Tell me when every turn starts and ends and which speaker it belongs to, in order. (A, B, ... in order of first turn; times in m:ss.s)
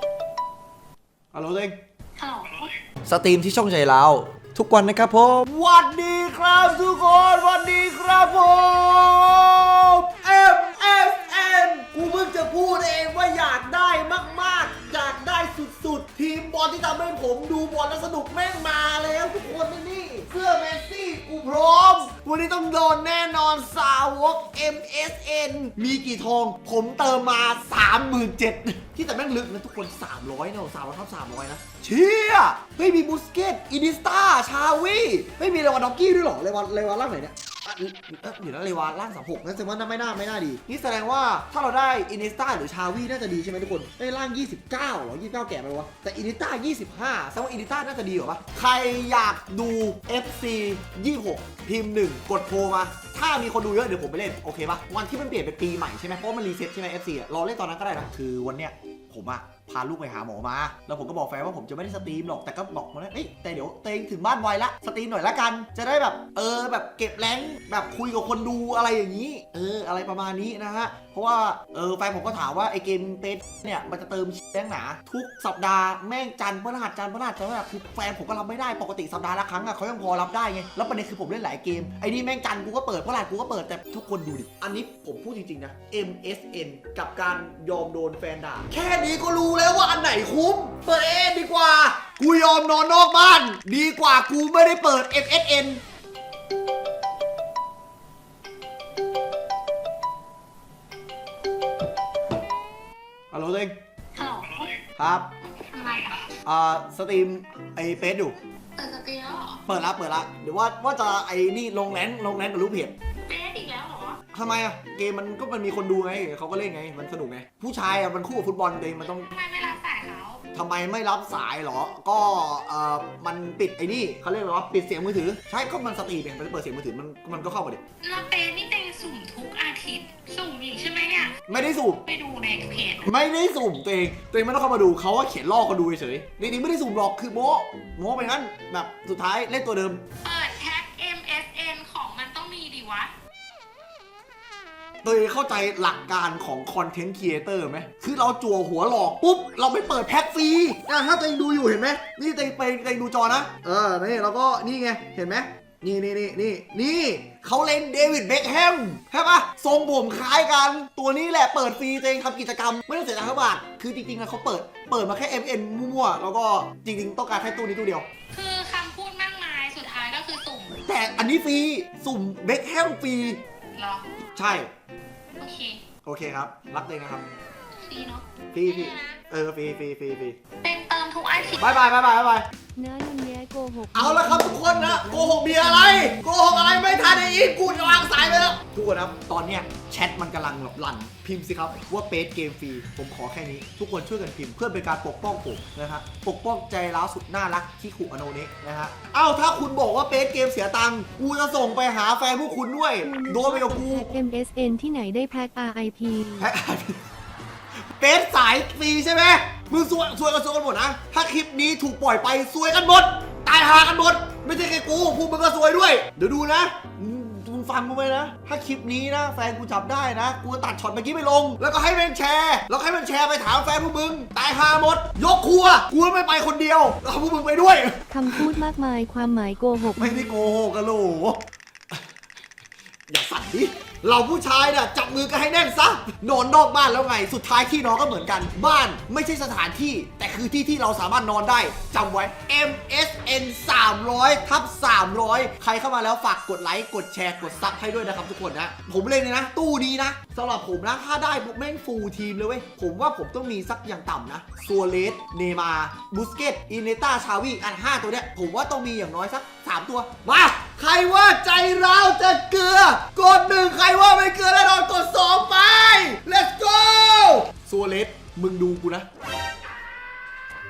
0:01.3-0:01.8 A
0:02.2-0:02.7 B
0:03.0-1:35.8 A
1:43.3-1:43.7 A
1:44.1-1:44.8 B
1:45.0-1:45.3 A
1:45.5-1:46.3 B
1:46.4-1:48.3 A
1:48.8-1:49.6 B
1:49.7-1:52.9 A
1:53.2-1:54.2 B
1:54.3-1:59.3 A
1:59.1-2:00.4 B
2:00.5-2:07.8 A
2:08.0-2:11.4 B
2:11.5-2:12.0 A
2:12.0-2:13.1 B
2:13.0-2:20.0 A
2:20.2-2:23.1 B
2:25.0-2:48.1 A
2:48.3-2:50.8 B
2:50.9-2:53.4 A
2:53.7-2:54.2 B
2:54.3-2:54.7 A
2:55.4-2:55.8 B
2:56.0-2:57.3 A
2:57.8-2:59.2 B
2:58.5-3:00.4 A
3:00.6-3:01.6 B
3:01.6-3:02.4 A
3:02.8-3:08.6 C
3:03.9-3:24.1 A
3:23.0-3:26.5 C
3:26.4-3:27.0 A
3:28.0-3:48.6 A
3:48.1-3:50.4 C
3:50.0-3:51.4 A
3:53.1-4:29.1 A